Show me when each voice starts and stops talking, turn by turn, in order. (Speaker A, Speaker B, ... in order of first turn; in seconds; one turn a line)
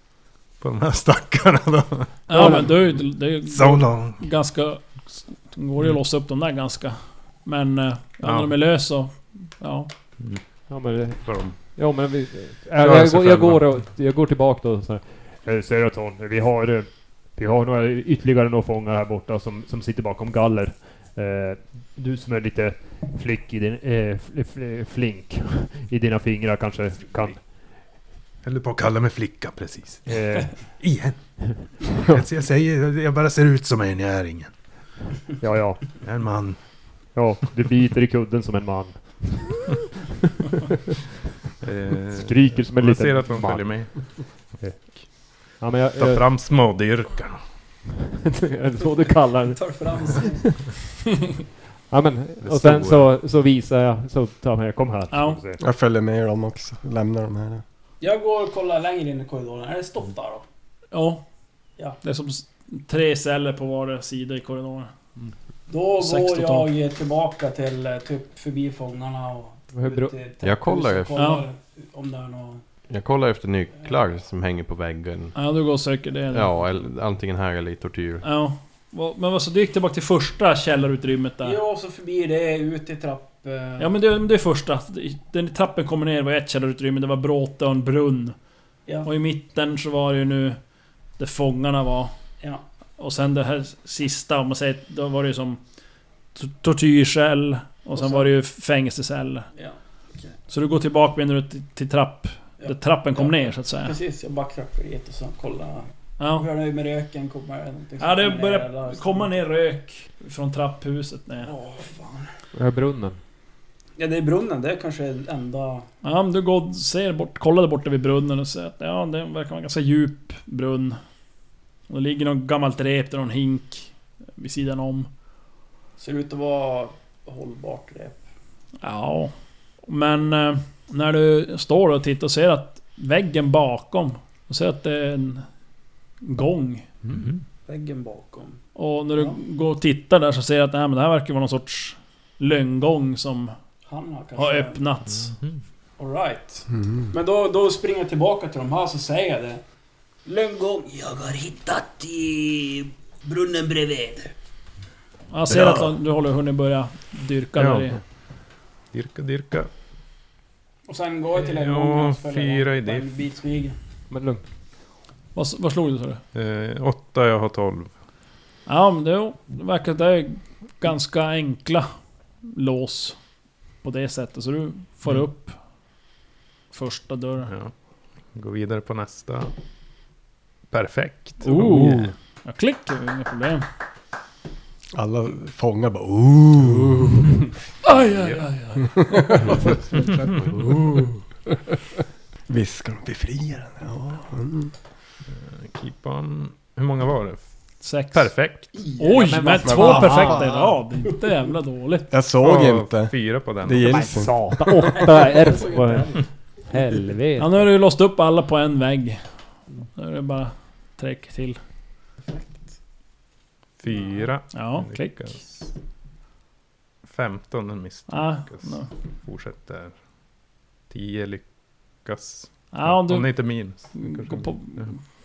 Speaker A: 0.6-4.2
Speaker B: 2.3-9.9
Speaker C: 2.3-2.9
Speaker A: 8.2-8.5
Speaker C: 10.7-27.4
Speaker A: 11.1-11.6
Speaker A: 12.8-13.8
Speaker A: 28.4-31.2
Speaker C: 30.1-30.6
Speaker A: 31.8-34.5
Speaker C: 35.4-35.9
Speaker A: 36.0-36.6
Speaker C: 37.1-39.6
Speaker A: 41.6-44.1
Speaker C: 42.1-43.9
Speaker C: 44.6-46.3
Speaker A: 44.7-45.0
Speaker A: 45.9-47.4
Speaker C: 48.2-50.6
Speaker D: 48.8-50.7
Speaker C: 51.9-55.6
Speaker A: 52.4-53.0
Speaker B: 55.1-55.4
Speaker E: 55.6-57.6
Speaker D: 58.0-60.4
Speaker B: 60.9-61.2
Speaker B: 62.0-64.9
Speaker D: 65.7-72.6
Speaker B: 66.0-66.7
Speaker C: 69.7-70.1
Speaker F: 70.4-71.2
Speaker B: 71.2-71.4
Speaker F: 72.9-75.3
Speaker B: 75.3-76.6
Speaker F: 76.3-78.2
Speaker B: 78.2-81.6
Speaker D: 81.4-83.9
Speaker B: 83.8-88.3
Speaker B: 89.0-90.6
Speaker B: 91.2-92.1
Speaker B: 93.0-95.6
Speaker B: 96.3-99.5
Speaker D: 97.9-98.3
Speaker D: 99.5-100.3
Speaker B: 100.5-104.0
Speaker D: 102.6-109.3
Speaker B: 106.2-106.5
Speaker B: 108.0-111.5
Speaker D: 111.4-112.3
Speaker C: 112.5-113.2
Speaker D: 114.0-115.9
Speaker B: 116.0-121.0
Speaker B: 121.9-125.1
Speaker D: 126.0-128.2
Speaker B: 128.8-135.4
Speaker B: 136.2-136.9
Speaker A: 137.1-137.4
Speaker D: 137.7-138.6
Speaker B: 138.7-143.5
Speaker D: 143.9-144.8
Speaker B: 144.4-145.3
Speaker A: 145.3-145.6
Speaker D: 146.0-149.6
Speaker E: 146.7-147.1
Speaker D: 150.2-154.3
Speaker B: 155.3-158.0
Speaker A: 157.6-157.9
Speaker A: 158.9-159.7
Speaker D: 160.9-163.8
Speaker A: 161.3-163.1
Speaker C: 164.1-164.4
Speaker B: 165.3-166.2
Speaker A: 166.3-167.9
Speaker B: 168.7-171.9
Speaker B: 172.4-173.2
Speaker B: 173.8-175.6
Speaker B: 176.7-177.5
Speaker A: 177.5-177.7
Speaker A: 178.2-179.5
Speaker A: 180.7-181.9
Speaker B: 181.4-183.7
Speaker C: 181.5-182.1
Speaker E: 184.9-187.5
Speaker B: 187.8-189.6
Speaker A: 187.9-188.4
Speaker E: 188.8-191.2
Speaker A: 190.0-190.4
Speaker E: 192.5-194.7
Speaker A: 195.3-198.8
Speaker B: 197.8-202.1
Speaker D: 198.7-199.7
Speaker C: 199.1-200.5
Speaker E: 199.6-200.7
Speaker E: 202.1-205.1
Speaker A: 202.4-204.1
Speaker C: 203.8-207.7
Speaker D: 204.8-206.9
Speaker B: 207.4-209.3
Speaker B: 209.9-211.6
Speaker D: 212.2-212.7
Speaker A: 213.8-215.6
Speaker D: 213.9-214.2
Speaker B: 214.5-215.2
Speaker A: 217.1-220.0
Speaker B: 218.1-218.9
Speaker A: 220.9-224.9
Speaker B: 222.7-225.0